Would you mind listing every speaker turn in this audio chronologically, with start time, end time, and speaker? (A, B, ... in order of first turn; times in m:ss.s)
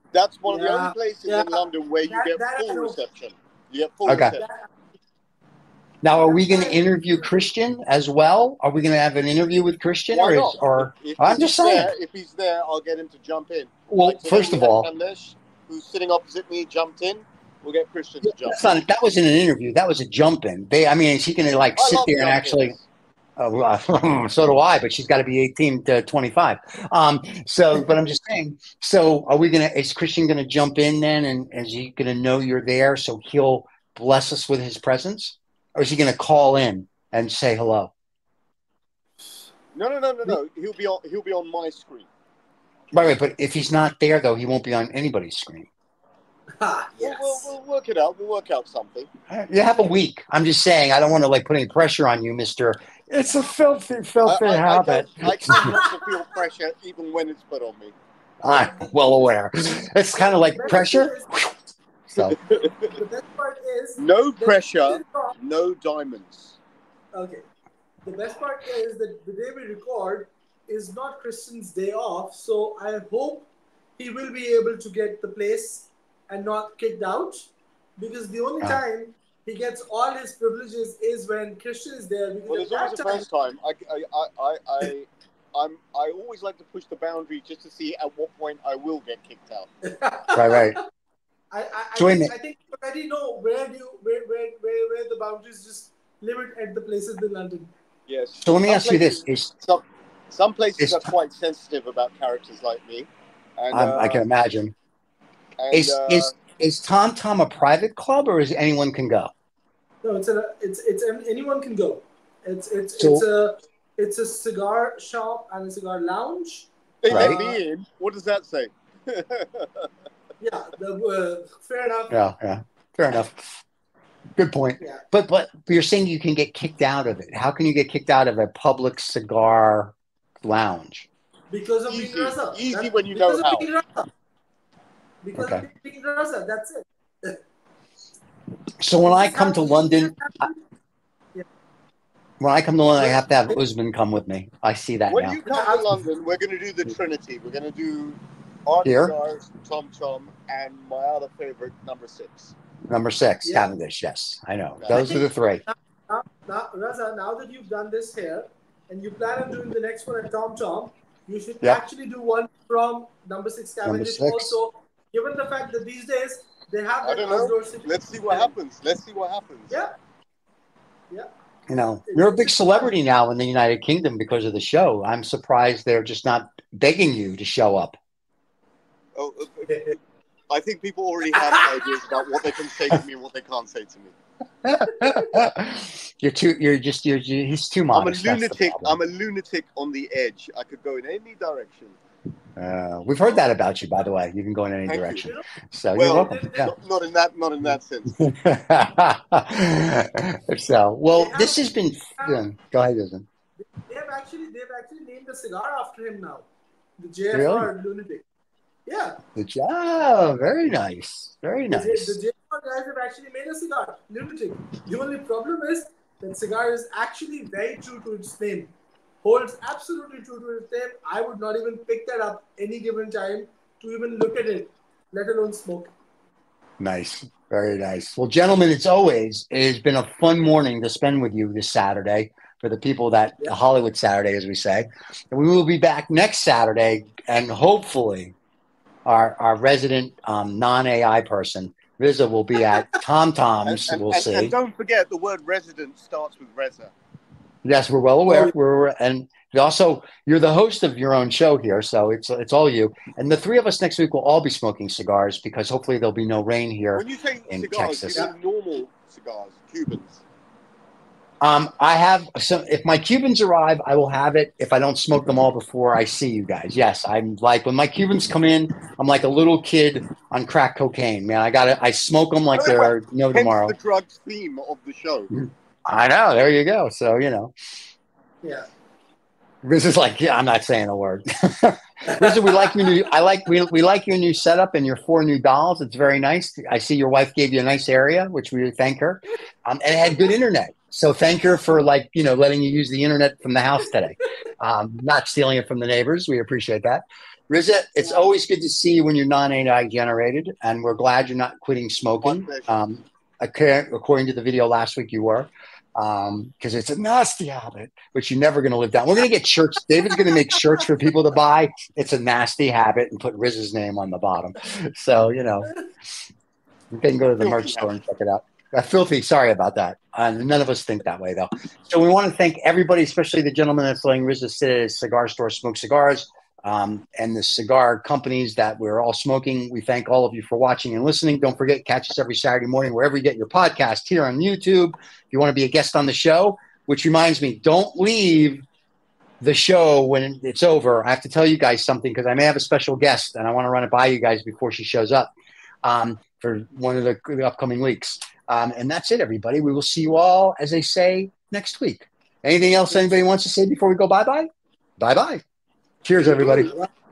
0:00.1-0:04.5 A
0:00.5-0:03.0 B
0:04.1-0:04.4 C
0:04.4-0:04.7 B
0:06.0-0:11.9 C
0:06.2-0:07.2 B
0:10.1-0:18.7 A
0:13.9-0:14.9 C
0:18.2-0:22.8 C
0:21.8-0:22.8 A
0:23.4-0:37.9 C
0:39.7-0:42.1 A
0:42.9-0:45.7 C
0:46.6-0:47.5 B
0:47.0-0:49.1 A
0:49.3-0:55.8 C
0:54.2-0:57.9 A
0:55.5-0:55.9 B
0:58.4-1:01.6 C
0:58.5-0:59.0 B
1:00.2-1:01.3 B
1:02.1-1:02.4 C
1:02.3-1:03.0 A
1:02.6-1:05.4 B
1:04.0-1:06.6 A
1:07.1-1:07.5 B
1:08.0-1:13.5 B
1:14.0-1:23.3 B
1:22.5-1:29.7 A
1:29.8-1:30.8 B
1:30.4-1:30.8 C
1:31.5-1:37.7 B
1:32.0-1:32.3 C
1:38.1-1:44.2 A
1:38.4-1:39.5 C
1:40.8-1:41.1 C
1:43.7-1:44.7 C
1:45.6-1:46.4 A
1:45.7-1:49.3 C
1:50.0-1:57.6 B
1:53.0-1:53.2 C
1:57.0-1:59.9 A
1:57.1-1:57.5 C
2:00.4-2:02.3 B
2:02.1-2:03.5 C
2:04.4-2:11.1 C
2:11.5-2:14.1 B
2:11.9-2:13.7 A
2:15.2-2:17.4 B
2:15.4-2:15.6 C
2:18.8-2:20.5 C
2:19.0-2:20.6 B
2:22.4-2:25.4 C
2:25.1-2:32.6 A
2:25.5-2:25.8 B
2:28.8-2:29.1 C
2:32.9-2:35.6 C
2:33.4-2:33.7 B
2:34.8-2:35.1 A
2:34.9-2:48.5 B
2:43.8-2:44.5 C
2:47.0-2:49.8 A
2:51.7-2:58.0 C
2:52.1-2:52.9 B
2:59.2-3:00.0 A
3:00.5-3:04.2 A
3:01.3-3:01.9 B
3:04.6-3:09.0 C
3:04.9-3:05.3 B
3:07.9-3:12.0 A
3:12.6-3:16.7 C
3:14.9-3:15.3 A
3:16.0-3:18.1 A
3:16.2-3:16.7 B
3:18.1-3:23.3 C
3:21.2-3:22.4 B
3:23.6-3:26.5 B
3:27.0-3:28.2 B
3:27.3-3:27.7 C
3:28.9-3:29.2 B
3:29.4-3:32.2 C
3:31.7-3:45.9 B
3:46.8-3:58.4 C
3:59.1-4:04.6 C
4:03.6-4:06.9 A
4:07.6-4:18.3 C
4:08.3-4:08.5 B
4:17.0-4:20.2 A
4:21.4-4:33.8 C
4:32.5-4:35.3 A
4:35.3-4:37.5 C
4:38.4-4:38.7 B
4:39.6-5:15.7 C
5:02.2-5:02.8 A
5:16.9-5:38.6 C
5:17.4-5:17.9 A
5:39.4-5:45.3 C
5:45.8-5:55.4 C
5:56.0-5:56.7 C